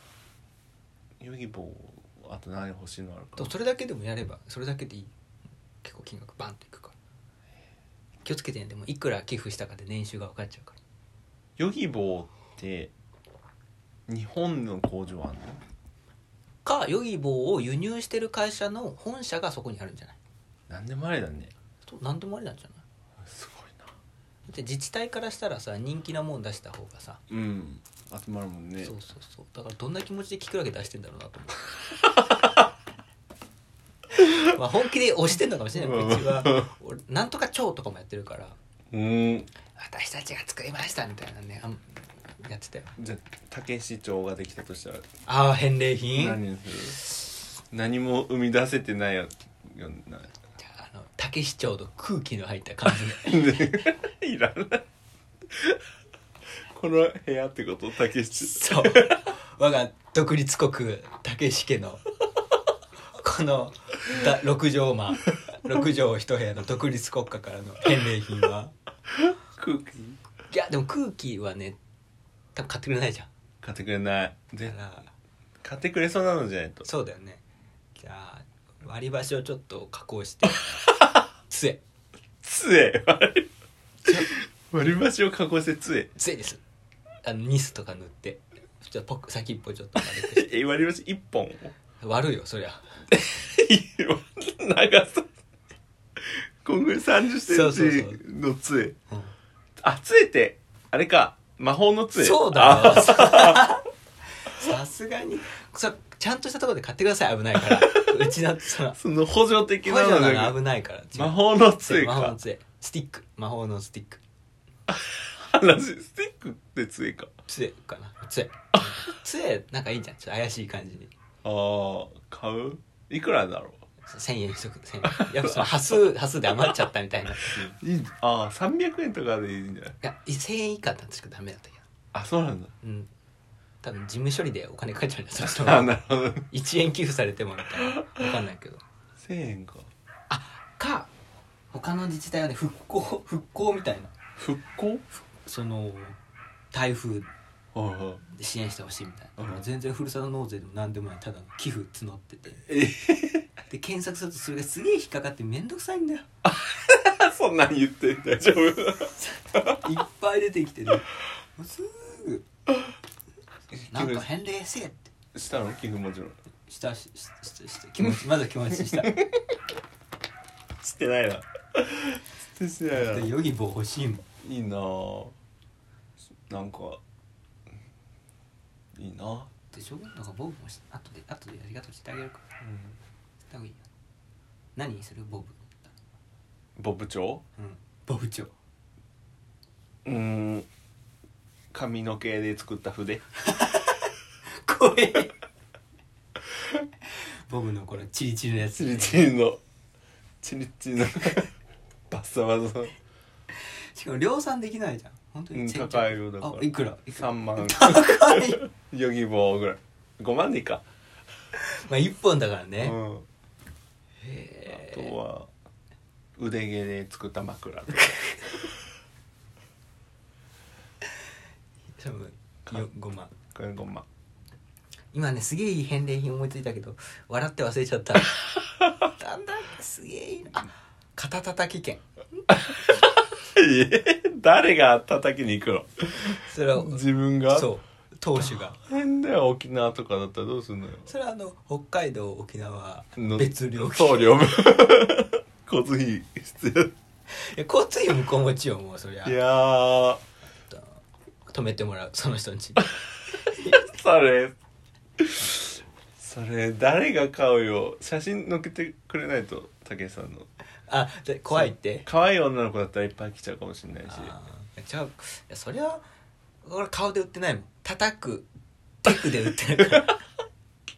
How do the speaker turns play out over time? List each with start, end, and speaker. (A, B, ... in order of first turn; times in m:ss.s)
0:01.2-0:03.5 A
0:03.4-0:05.1 B
0:05.8-0:06.9 B
0:08.2-0:10.8 B
0:11.6-0:12.9 A
0:14.1-0:15.6 A
0:16.6-0:20.2 B
0:20.7-0:21.5 A
0:21.8-0:22.8 B
0:23.2-0:23.9 A
0:24.5-0:27.2 B
0:27.3-0:28.9 A
0:28.8-0:31.7 B
0:32.1-0:32.6 A
0:34.1-0:38.6 B
0:35.7-0:36.7 A
0:38.9-0:39.5 A
0:39.7-0:42.9 B
0:43.0-0:45.0 A
0:45.2-0:46.4 B
0:46.1-0:47.0 A
0:47.7-0:50.3 A
0:50.6-0:53.8 B
0:52.8-0:54.8 A
0:55.5-0:55.8 A
0:56.7-0:59.2 A
0:58.3-1:02.0 B
1:03.1-1:08.7 B
1:09.1-1:10.2 A
1:10.5-1:11.8 B
1:12.5-1:13.3 B
1:13.6-1:14.8 A
1:14.6-1:15.1 B
1:15.6-1:16.9 A
1:16.8-1:17.4 B
1:17.9-1:20.8 B
1:21.5-1:21.8 B
1:22.4-1:23.5 A
1:24.0-1:24.3 B
1:24.1-1:26.1 A
1:26.2-1:26.6 B
1:27.2-1:30.4 B
1:30.0-1:31.7 A
1:32.0-1:33.0 B
1:33.1-1:35.3 A
1:36.2-1:39.0 A
1:37.4-1:38.2 B
1:39.8-1:43.8 A
1:42.1-1:43.8 B
1:44.4-1:49.0 B
1:47.6-1:48.3 A
1:48.9-1:50.6 A
1:49.8-1:54.2 B
1:51.1-1:52.4 A
1:54.9-1:57.3 A
1:57.5-2:01.1 B
2:01.4-2:03.8 A
2:04.0-2:07.7 B
2:05.0-2:06.0 A
2:07.3-2:10.0 A
2:10.0-2:11.8 B
2:12.1-2:12.7 A
2:12.8-2:13.1 B
2:13.8-2:15.9 B
2:15.4-2:16.5 A
2:16.5-2:18.8 B
2:19.2-2:19.9 A
2:20.3-2:21.1 B
2:21.7-2:24.1 B
2:24.4-2:25.0 A
2:25.4-2:26.2 B
2:26.7-2:27.3 B
2:27.7-2:28.2 A
2:28.3-2:32.6 B
2:29.4-2:29.6 A
2:32.6-2:33.5 A
2:33.7-2:36.3 B
2:36.4-2:39.8 A
2:39.2-2:42.4 B
2:43.8-2:44.3 A
2:43.9-2:45.1 B
2:45.3-2:46.4 A
2:46.7-2:49.2 B
2:49.0-2:49.3 A
2:50.8-2:53.3 A
2:52.9-2:54.2 B
2:54.4-2:55.3 A
2:56.5-2:57.0 A
2:58.9-2:59.5 A
2:59.7-3:02.4 B
3:02.6-3:03.0 A
3:03.5-3:03.8 B
3:04.8-3:05.9 B
3:06.8-3:07.4 A
3:07.6-3:08.5 B
3:10.0-3:10.7 A
3:11.7-3:13.2 A
3:13.4-3:15.3 B
3:17.1-3:19.2 B
3:18.7-3:19.6 A
3:20.4-3:21.5 A
3:22.1-3:23.0 A
3:23.6-3:28.6 B
3:25.5-3:30.8 A
3:31.5-3:33.0 B
3:32.8-3:33.3 A
3:34.2-3:35.1 B
3:34.7-3:35.5 A
3:36.4-3:38.1 A
3:42.0-3:43.3 B
3:43.5-3:44.0 A
3:45.1-3:48.4 B
3:49.1-3:52.0 B
3:52.5-3:57.7 A
3:56.4-3:58.8 B
3:58.5-4:01.1 A
4:01.0-4:04.4 B
4:03.2-4:06.9 A
4:07.3-4:09.4 B
4:09.2-4:10.2 A
4:10.7-4:13.8 B
4:13.5-4:14.5 A
4:15.2-4:20.5 A
4:20.9-4:22.1 B
4:21.5-4:24.3 A
4:24.1-4:26.0 B
4:26.6-4:28.5 B
4:29.0-4:30.2 B